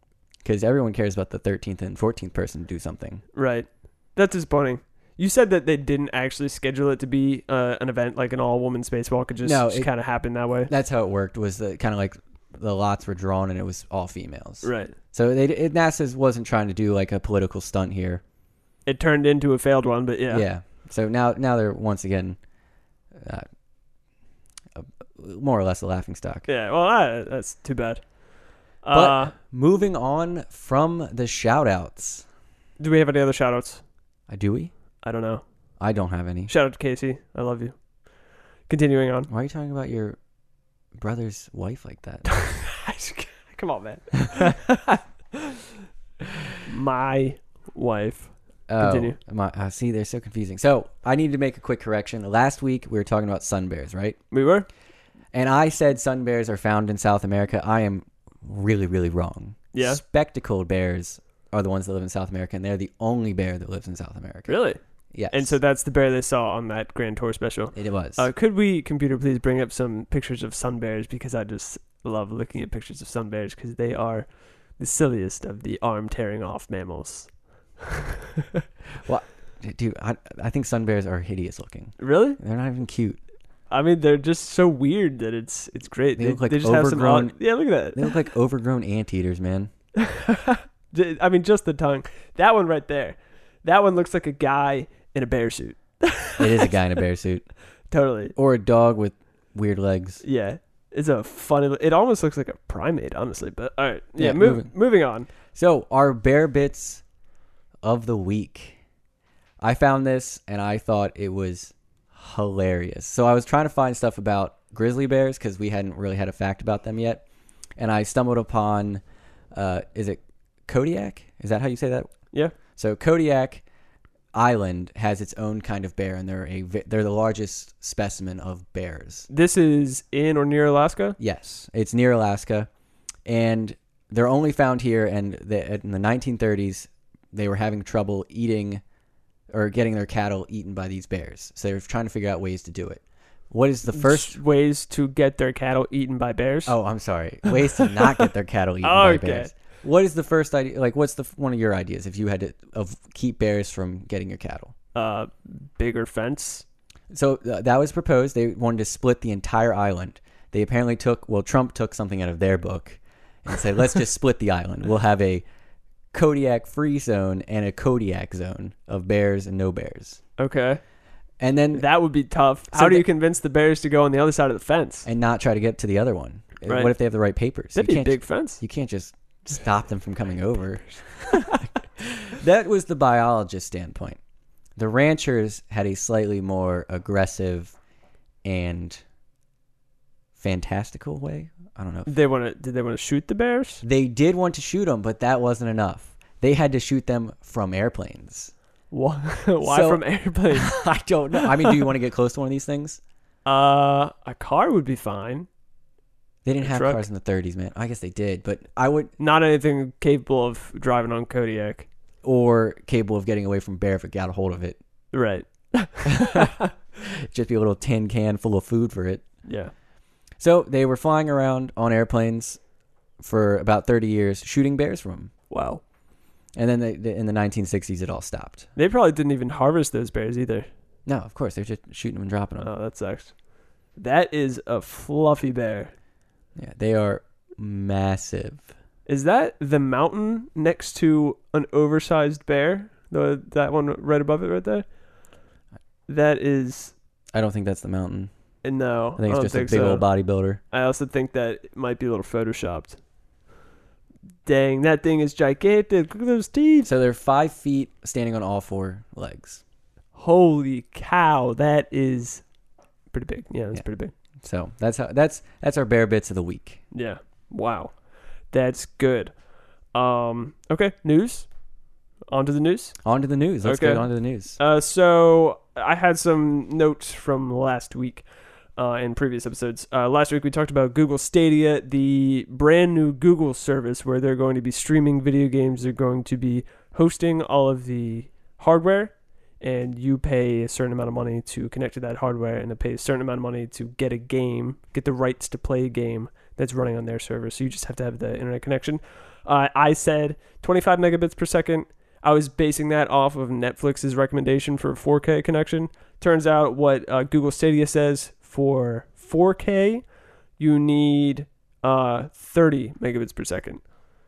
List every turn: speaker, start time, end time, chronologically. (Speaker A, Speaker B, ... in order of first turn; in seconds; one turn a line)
Speaker A: 0.4-3.2
Speaker B: 3.3-10.7
Speaker A: 9.4-9.9
Speaker A: 10.7-18.2
Speaker B: 14.6-14.9
Speaker B: 18.9-20.4
Speaker A: 20.3-22.4
Speaker A: 23.1-23.5
Speaker A: 24.8-26.5
Speaker B: 26.5-28.0
Speaker B: 28.8-29.3
Speaker A: 28.9-32.2
Speaker B: 32.8-33.8
Speaker A: 34.3-34.7
Speaker B: 35.0-35.4
Speaker A: 35.8-36.5
Speaker B: 36.5-37.8
Speaker B: 38.7-39.3
Speaker A: 39.3-40.2
Speaker A: 41.0-42.3
Speaker B: 42.3-45.6
Speaker B: 46.6-49.2
Speaker A: 48.7-54.2
Speaker B: 54.3-54.7
Speaker A: 55.3-64.6
Speaker B: 59.7-60.0
Speaker B: 64.5-64.8
Speaker A: 65.1-65.6
Speaker B: 65.3-77.3
Speaker A: 67.8-68.3
Speaker A: 79.0-83.2
Speaker B: 82.0-82.4
Speaker B: 83.7-88.1
Speaker A: 86.2-89.7
Speaker B: 90.0-96.8
Speaker A: 96.4-97.5
Speaker B: 97.9-98.3
Speaker A: 98.4-100.2
Speaker B: 100.2-105.3
Speaker A: 104.2-104.7
Speaker A: 105.5-107.0
Speaker A: 107.8-108.8
Speaker A: 109.6-117.2
Speaker A: 117.8-119.0
Speaker A: 119.5-122.1
Speaker A: 122.8-123.6
Speaker A: 124.3-129.3
Speaker B: 129.3-131.2
Speaker A: 131.2-132.7
Speaker A: 133.2-138.8
Speaker A: 139.5-144.4
Speaker B: 143.9-146.8
Speaker A: 146.7-154.7
Speaker B: 147.4-147.9
Speaker B: 148.8-149.5
Speaker B: 154.9-156.7
Speaker A: 157.1-165.4
Speaker A: 166.1-170.2
Speaker B: 170.4-170.8
Speaker A: 171.4-171.9
Speaker B: 171.7-175.1
Speaker A: 172.7-173.1
Speaker A: 175.1-184.2
Speaker B: 176.7-176.9
Speaker B: 177.8-178.6
Speaker A: 184.8-187.8
Speaker A: 188.4-189.0
Speaker A: 190.4-192.1
Speaker B: 192.1-193.8
Speaker A: 193.8-198.5
Speaker B: 198.9-200.8
Speaker A: 199.6-203.0
Speaker B: 201.3-201.8
Speaker B: 203.4-205.5
Speaker A: 206.4-209.1
Speaker B: 206.6-207.0
Speaker B: 209.2-211.9
Speaker A: 212.2-214.8
Speaker B: 215.1-216.7
Speaker A: 216.2-216.5
Speaker A: 217.0-219.2
Speaker B: 219.4-219.7
Speaker A: 220.4-222.6
Speaker A: 223.2-225.3
Speaker B: 225.5-225.8
Speaker A: 226.6-228.7
Speaker B: 228.8-230.7
Speaker A: 231.1-232.7
Speaker B: 232.6-233.4
Speaker B: 233.9-235.9
Speaker A: 236.6-238.7
Speaker B: 239.1-244.9
Speaker B: 246.1-246.9
Speaker A: 247.3-248.3
Speaker B: 248.6-250.1
Speaker A: 249.2-250.6
Speaker B: 250.7-253.0
Speaker B: 254.4-256.9
Speaker A: 256.9-259.6
Speaker B: 260.1-262.4
Speaker B: 263.1-264.1
Speaker A: 264.4-266.8
Speaker B: 266.9-267.9
Speaker B: 268.5-269.3
Speaker B: 269.9-271.5
Speaker B: 272.3-273.0
Speaker A: 273.0-274.6
Speaker B: 273.6-310.1
Speaker B: 310.6-313.8